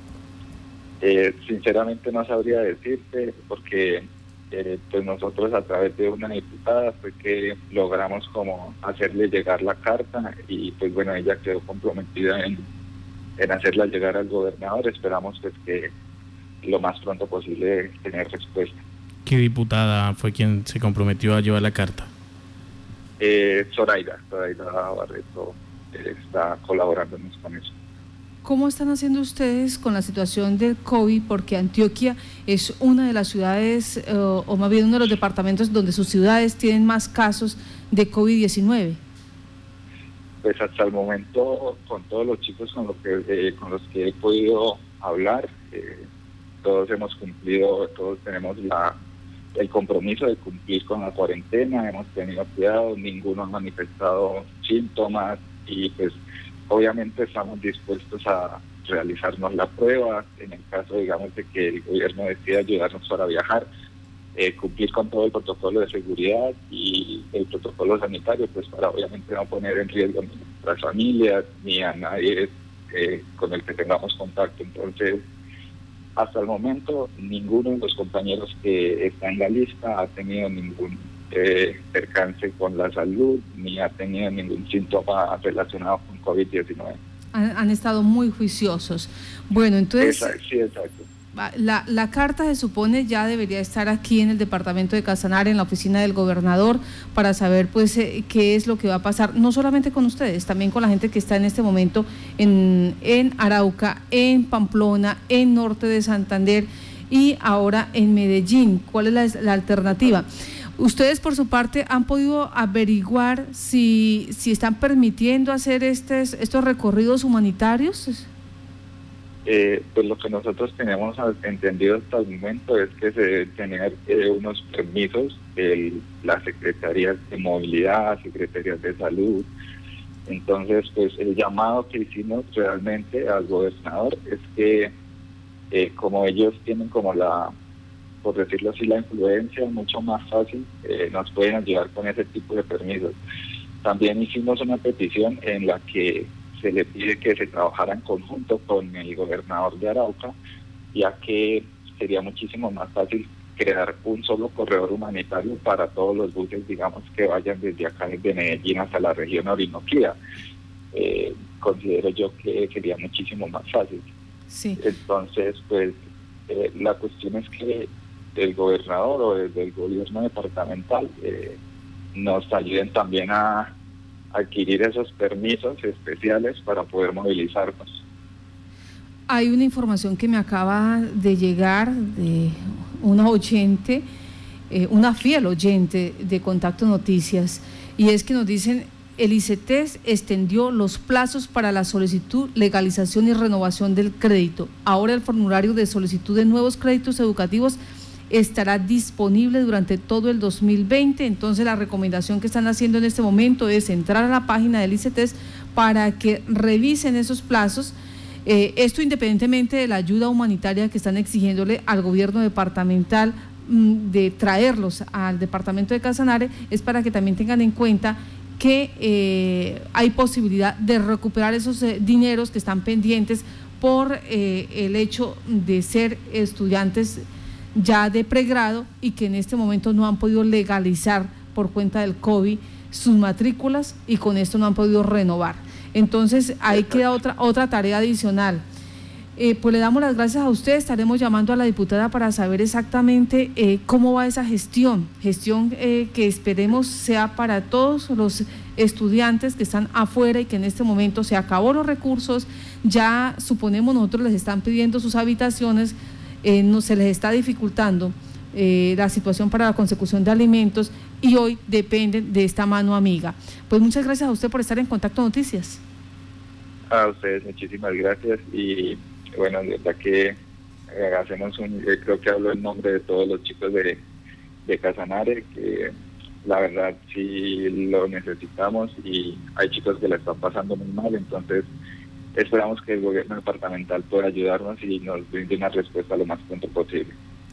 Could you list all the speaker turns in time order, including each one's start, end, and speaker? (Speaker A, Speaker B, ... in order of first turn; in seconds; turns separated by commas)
Speaker A: 1.0-12.7, Speaker A: 13.4-15.9, Speaker A: 16.6-18.8, Speaker B: 19.2-22.1, Speaker A: 23.2-27.7, Speaker C: 28.4-39.0, Speaker A: 40.4-46.1, Speaker A: 46.6-49.0, Speaker A: 49.5-63.7, Speaker A: 64.3-75.2, Speaker A: 76.2-87.0, Speaker C: 87.3-90.3, Speaker A: 90.0-91.1, Speaker C: 91.3-110.3, Speaker C: 110.8-118.3, Speaker A: 119.5-129.5, Speaker A: 130.3-134.9, Speaker A: 135.7-137.5, Speaker A: 138.2-143.2, Speaker A: 143.8-150.3, Speaker A: 150.9-160.2, Speaker A: 160.9-164.1, Speaker C: 164.5-164.8, Speaker A: 164.8-171.6, Speaker A: 172.1-173.7, Speaker A: 174.3-178.0, Speaker C: 179.3-184.0, Speaker C: 184.7-197.8, Speaker C: 198.3-227.2, Speaker C: 227.7-238.6, Speaker A: 236.7-237.1, Speaker C: 239.3-265.8, Speaker A: 266.9-270.4, Speaker A: 270.9-274.0, Speaker A: 274.6-281.7, Speaker A: 282.3-287.1